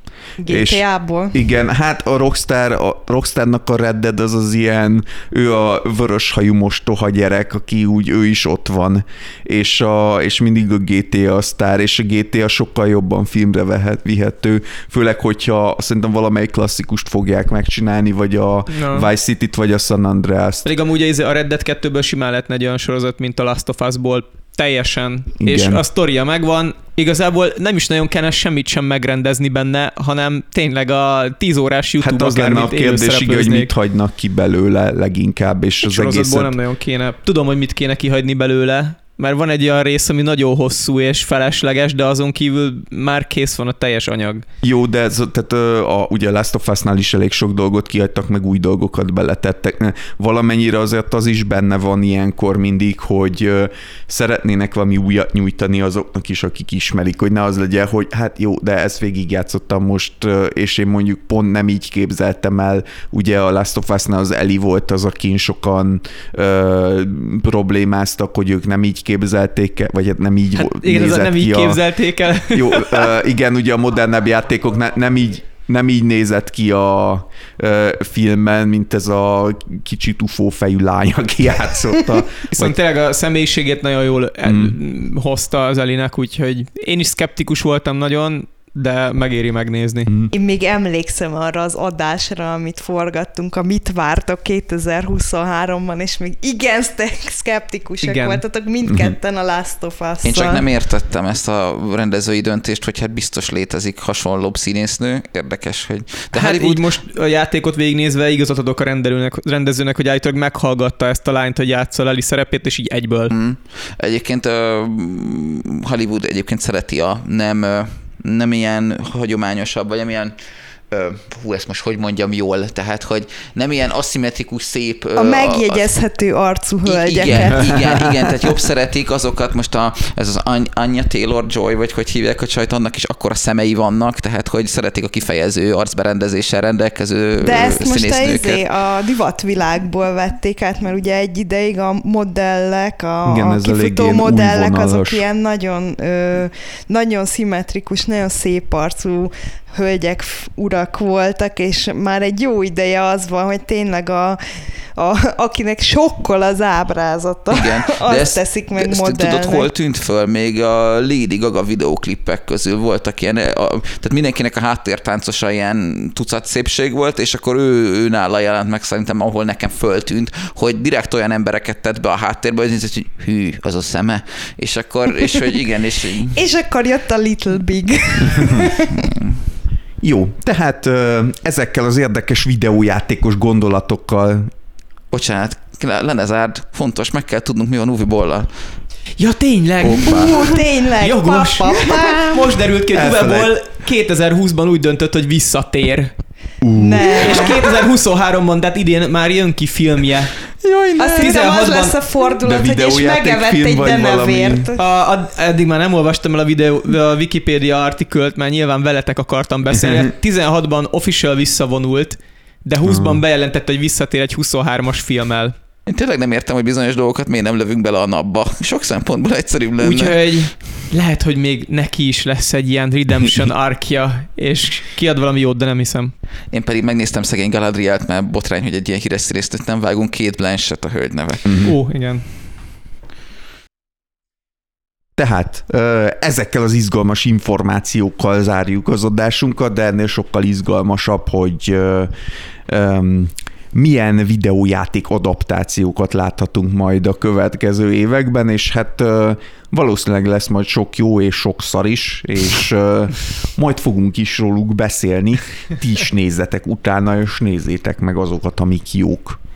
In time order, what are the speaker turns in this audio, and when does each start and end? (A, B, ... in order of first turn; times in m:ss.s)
0:00.4-0:01.4 A
0:00.5-0:20.7 B
0:18.7-0:19.1 C
0:20.6-0:33.7 C
0:25.4-0:25.8 B
0:32.0-0:36.5 B
0:35.8-0:44.4 C
0:44.6-1:11.8 B
1:10.6-1:13.1 C
1:12.5-1:22.8 B
1:22.5-1:30.1 C
1:24.4-1:24.8 B
1:30.1-1:30.3 B
1:30.3-1:40.6 A
1:38.0-1:38.4 C
1:38.9-1:39.2 B
1:40.2-1:46.9 D
1:46.3-1:53.3 C
1:53.3-2:00.4 D
2:00.9-2:05.9 D
2:05.2-2:08.1 A
2:06.8-2:18.6 D
2:17.4-2:39.7 A
2:23.2-2:25.2 B
2:37.5-2:56.4 D
2:56.3-2:59.1 A
2:59.0-2:59.4 D
3:00.0-3:04.5 B
3:05.1-3:08.5 D
3:09.2-3:16.1 C
3:09.8-3:10.5 B
3:10.3-3:12.6 A
3:12.9-3:13.5 B
3:16.6-3:17.6 B
3:16.8-3:17.7 A
3:17.2-3:22.0 C
3:21.0-3:24.8 A
3:22.4-3:24.7 B
3:24.8-3:35.5 C
3:32.8-3:33.2 B
3:35.9-3:40.2 D
3:39.8-3:46.1 C
3:46.5-3:51.6 D
3:51.4-3:51.7 B
3:51.6-3:52.3 C
3:55.2-4:02.1 B
4:02.7-4:19.4 B